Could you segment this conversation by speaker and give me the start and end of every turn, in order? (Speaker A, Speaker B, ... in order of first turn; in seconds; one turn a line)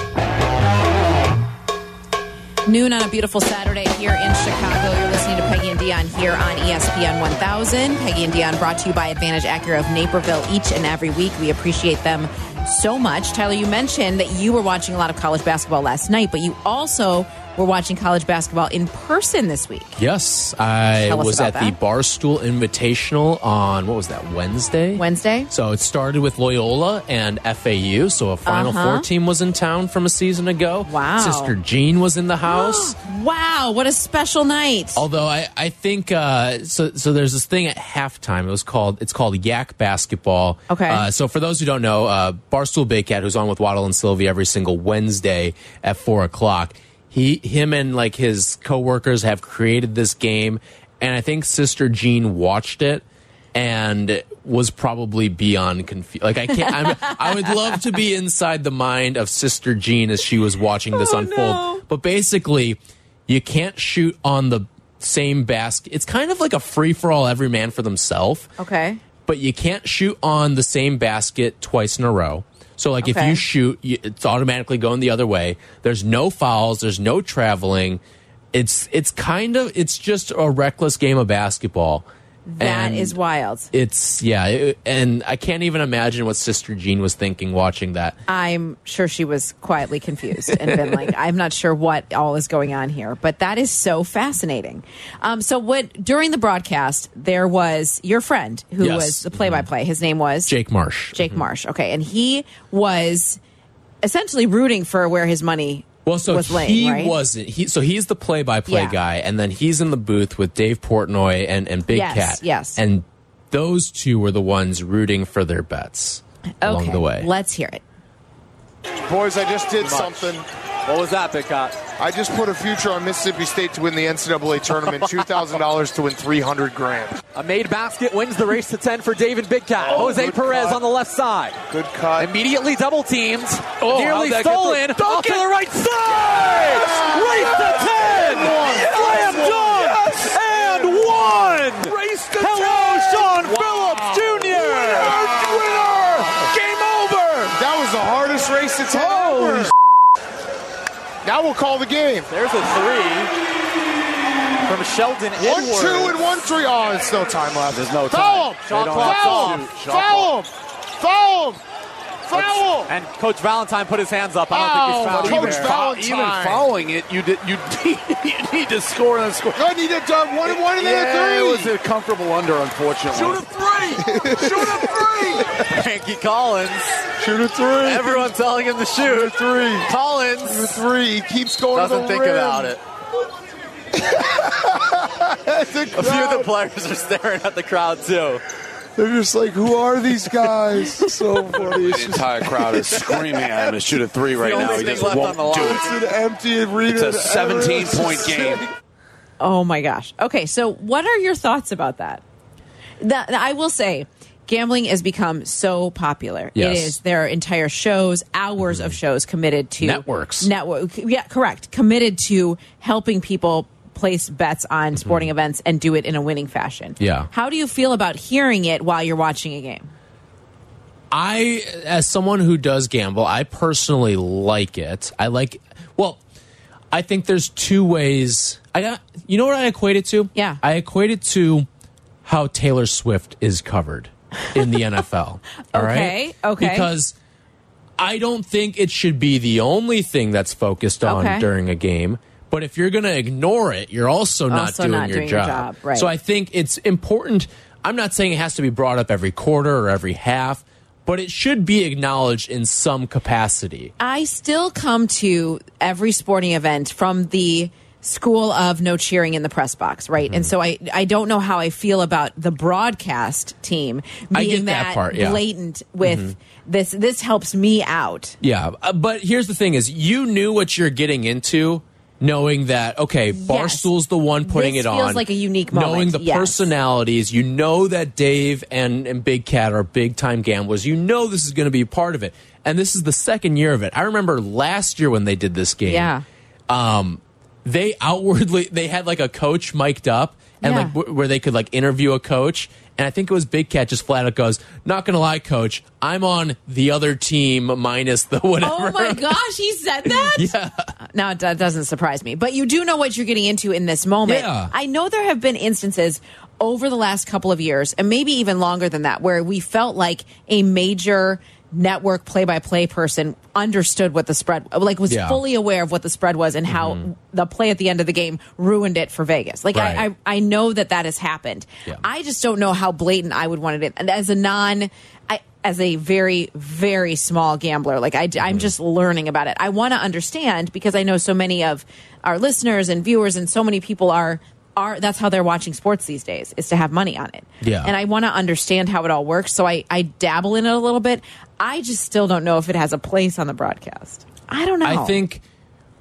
Speaker A: 2.6-20.0
Speaker B: 20.0-33.0
Speaker A: 21.1-21.8
Speaker A: 24.9-25.5
Speaker A: 28.5-29.1
Speaker A: 30.9-31.5
Speaker A: 32.5-35.0
Speaker B: 35.0-68.5
Speaker A: 40.7-41.0
Speaker A: 60.9-61.8
Speaker A: 68.6-69.0
Speaker B: 69.3-78.0
Speaker A: 73.0-73.4
Speaker B: 78.5-82.1
Speaker A: 82.5-83.7
Speaker B: 82.6-83.2
Speaker B: 83.7-88.2
Speaker A: 88.3-100.5
Speaker B: 90.5-91.0
Speaker B: 98.8-99.7
Speaker B: 100.5-101.4
Speaker A: 101.2-103.4
Speaker A: 104.0-107.2
Speaker B: 106.0-117.3
Speaker A: 108.7-109.0
Speaker A: 111.9-112.8
Speaker A: 116.6-117.8
Speaker C: 119.1-120.5
Speaker D: 119.8-121.8
Speaker C: 122.0-127.2
Speaker D: 124.9-125.3
Speaker D: 127.3-131.6
Speaker C: 129.8-130.8
Speaker E: 130.0-130.7
Speaker C: 131.7-132.3
Speaker D: 132.2-145.7
Speaker B: 133.8-135.3
Speaker E: 135.2-136.7
Speaker C: 136.7-140.9
Speaker E: 137.4-147.6
Speaker C: 143.2-146.5
Speaker D: 146.2-146.7
Speaker C: 147.5-149.7
Speaker E: 148.9-149.7
Speaker D: 149.0-149.5
Speaker C: 151.2-152.3
Speaker D: 152.3-153.3
Speaker D: 154.7-156.2
Speaker C: 155.4-161.6
Speaker D: 157.7-160.3
Speaker E: 157.7-160.3
Speaker C: 162.3-162.9
Speaker D: 162.3-165.9
Speaker C: 164.5-166.7
Speaker E: 165.0-169.7
Speaker C: 169.6-171.8
Speaker E: 170.5-175.4
Speaker D: 173.2-173.4
Speaker C: 174.0-175.6
Speaker D: 175.6-177.1
Speaker C: 177.2-178.3
Speaker D: 177.8-180.8
Speaker C: 179.0-179.9
Speaker C: 180.4-182.8
Speaker D: 181.7-182.8
Speaker C: 184.0-186.5
Speaker D: 185.9-188.4
Speaker C: 189.0-193.8
Speaker E: 191.5-195.9
Speaker D: 194.3-195.9
Speaker C: 194.6-198.7
Speaker E: 196.9-198.7
Speaker A: 199.4-202.2
Speaker A: 203.0-219.9
Speaker B: 206.6-207.0
Speaker B: 209.8-210.5
Speaker B: 215.0-215.3
Speaker B: 217.0-217.3
Speaker B: 221.1-226.2
Speaker B: 226.9-231.7
Speaker A: 230.3-230.6
Speaker B: 232.2-237.2
Speaker A: 235.7-236.9
Speaker B: 238.0-253.9
Speaker A: 241.0-241.5
Speaker A: 244.5-246.1
Speaker A: 254.0-268.4
Speaker B: 264.3-265.4
Speaker B: 266.0-266.3
Speaker B: 268.4-286.1
Speaker A: 273.3-273.9
Speaker A: 274.4-276.7
Speaker A: 285.9-286.2
Speaker B: 286.7-299.4
Speaker A: 290.6-290.9
Speaker A: 298.6-345.2
Speaker B: 300.1-300.9
Speaker B: 304.2-304.7
Speaker B: 315.1-315.4
Speaker B: 316.7-317.1
Speaker B: 319.7-320.1
Speaker B: 328.4-328.7
Speaker B: 337.6-337.9
Speaker B: 344.8-345.4